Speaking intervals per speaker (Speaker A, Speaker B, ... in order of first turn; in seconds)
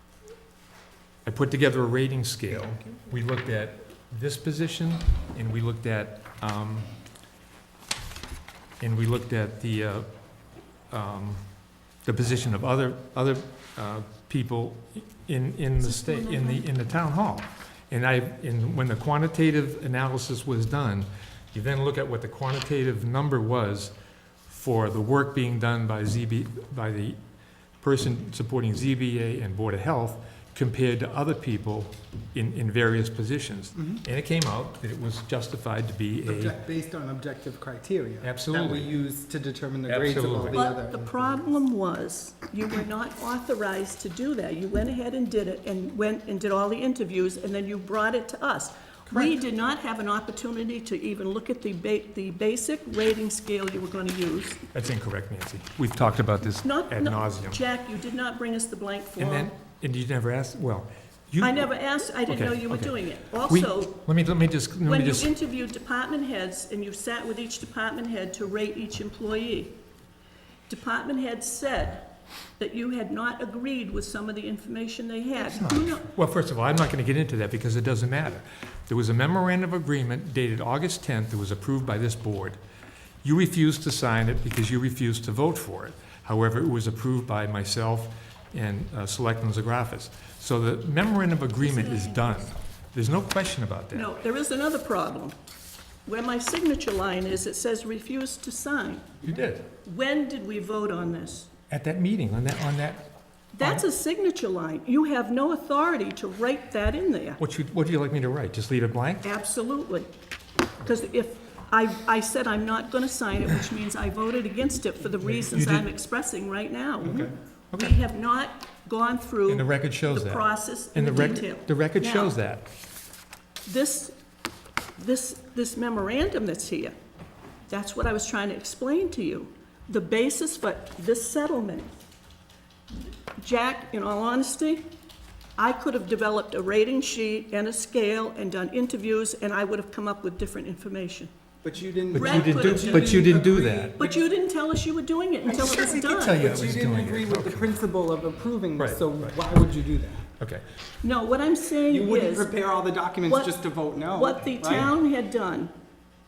Speaker A: 1.2-6.9, 8.8-10.1, 10.9-11.5, 12.0-23.9, 24.5-27.2, 27.8-36.6, 38.2-38.9, 39.9-40.7, 49.1-49.4, 54.7-57.6, 59.2-65.3, 75.5-82.6, 83.2-94.1, 99.2-99.7, 101.7-103.1, 107.4-109.3, 115.2-115.9, 117.0-118.0, 119.5-122.7, 142.1-144.0, 146.0-147.8, 148.8-149.4, 150.4-150.6
Speaker B: 15.8-16.6, 40.5-54.6, 56.6-59.5, 61.4-64.0, 64.8-69.8, 70.7-76.1, 91.6-92.5, 93.9-95.3, 96.1-99.1, 99.8-101.5, 103.6-107.4, 109.2-110.1, 110.8-117.2, 117.8-122.3, 123.7-124.1, 125.0-126.9, 127.7-131.9, 133.4-134.9, 135.6-141.3, 142.1-143.4, 144.0-146.5, 151.0-152.6, 153.3-153.6, 154.1-155.7
Speaker C: 36.2-41.4, 141.6-144.2, 145.5-150.3, 151.9-154.9